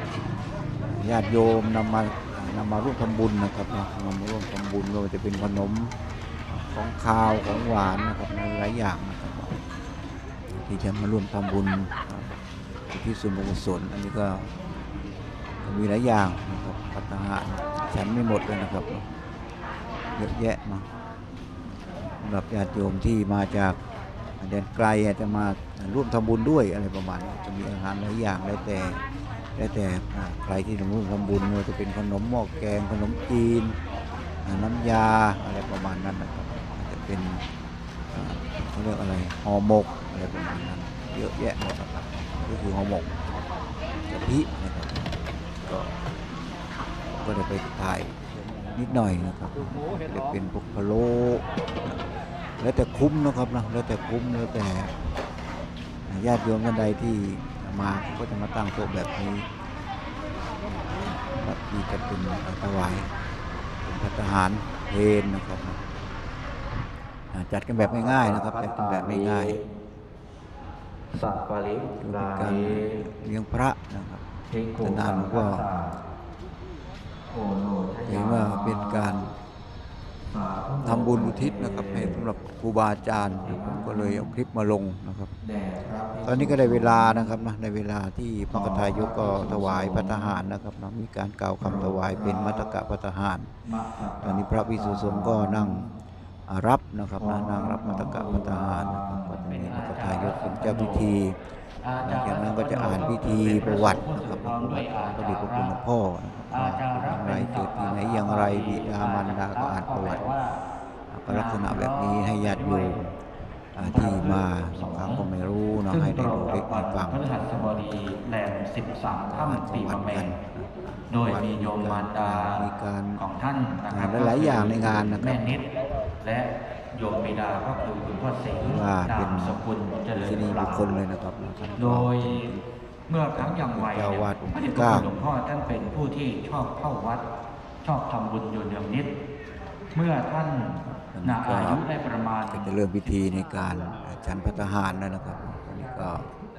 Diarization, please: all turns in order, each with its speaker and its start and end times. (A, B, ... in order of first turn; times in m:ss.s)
0:00.8-0:09.6 A
0:10.5-0:12.4 A
0:12.9-0:14.5 A
0:15.6-0:19.1 A
0:20.1-0:20.9 A
0:22.2-0:23.8 A
0:24.4-0:33.8 A
0:34.4-0:37.4 A
0:38.1-0:43.2 A
0:44.1-0:46.0 A
0:47.1-0:48.2 A
0:48.7-0:52.0 A
0:52.6-0:54.9 A
0:56.0-0:59.5 A
1:01.0-1:03.1 A
1:03.8-1:05.8 A
1:07.3-1:09.6 A
1:07.7-1:09.6 B
1:11.1-1:13.0 B
1:12.0-1:14.2 A
1:14.5-1:16.0 B
1:14.8-1:15.7 A
1:17.3-1:19.3 B
1:18.0-1:19.3 A
1:20.3-1:22.2 B
1:20.8-1:25.3 A
1:23.2-1:24.3 B
1:25.4-1:27.3 B
1:26.2-1:33.6 A
1:28.5-1:30.4 B
1:31.6-1:32.7 B
1:33.6-1:35.9 B
1:34.1-1:35.9 A
1:36.5-1:41.4 A
1:37.2-1:41.2 B
1:41.8-1:45.8 B
1:42.0-1:50.4 A
1:46.5-1:50.6 B
1:51.1-1:53.2 A
1:51.3-1:53.0 B
1:53.7-1:58.0 A
1:53.8-1:55.2 B
1:55.8-2:00.4 B
1:59.1-2:03.2 A
2:01.1-2:10.9 B
2:03.8-2:05.5 A
2:08.6-2:12.7 A
2:11.8-2:12.5 B
2:13.1-2:17.2 B
2:13.3-2:15.2 A
2:17.8-2:19.1 B
2:19.9-2:22.7 B
2:21.1-2:21.8 A
2:22.5-2:26.3 A